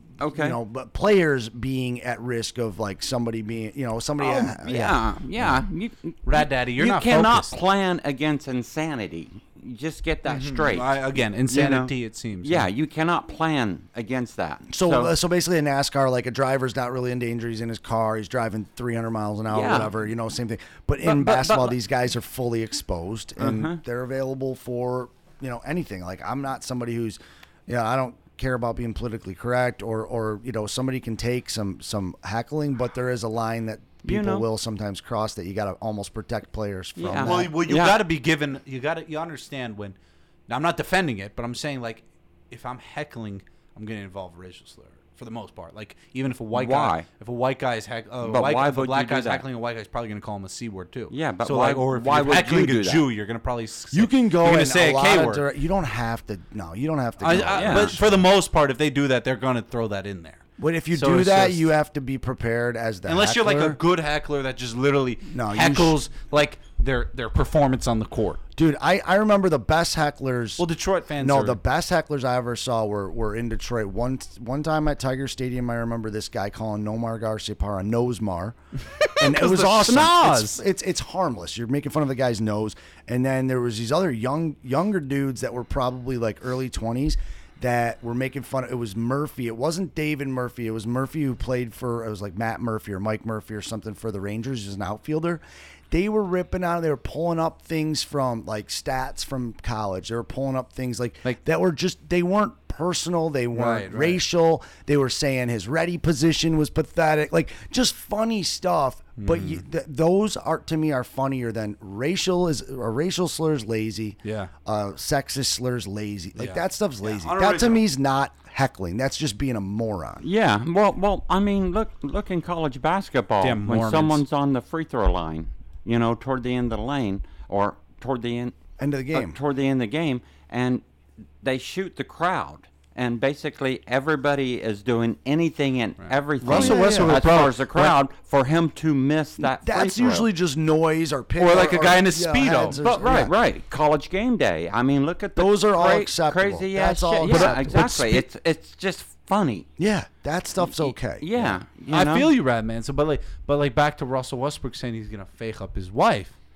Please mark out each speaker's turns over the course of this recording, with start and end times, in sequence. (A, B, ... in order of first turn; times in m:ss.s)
0:00.2-0:00.6 A
0:00.3-0:05.6 B
0:04.2-0:10.9 A
0:06.2-0:07.5 C
0:10.3-0:12.7 C
0:11.5-0:11.9 A
0:12.4-0:15.1 A
0:14.7-0:37.5 B
0:19.5-0:19.9 A
0:21.0-0:21.8 A
0:23.4-0:23.8 A
0:34.0-0:34.5 A
0:37.0-0:38.0 A
0:37.2-0:40.0 C
0:40.5-0:55.4 C
0:46.5-0:47.1 A
0:48.2-0:49.4 A
0:51.1-0:53.1 A
0:53.9-0:58.1 B
0:57.2-1:01.7 C
0:57.6-0:57.9 A
1:00.6-1:03.8 B
1:03.1-1:08.4 C
1:05.3-1:06.0 B
1:08.6-1:10.7 B
1:10.6-1:11.6 C
1:11.2-1:18.6 B
1:18.9-1:20.6 C
1:19.2-2:00.2 B
1:43.5-1:44.2 C
1:49.2-1:49.6 C
1:54.2-1:54.5 C
1:56.4-1:57.9 C
2:00.2-2:08.6 A
2:03.4-2:04.2 C
2:08.8-2:09.4 B
2:09.1-2:10.8 A
2:11.4-2:20.3 A
2:16.0-2:18.0 C
2:16.4-2:17.3 B
2:19.4-2:23.3 B
2:21.4-2:22.8 C
2:22.7-2:29.7 A
2:25.4-2:28.2 B
2:27.3-2:27.9 C
2:29.8-2:31.6 B
2:30.6-2:32.3 A
2:31.9-2:36.4 C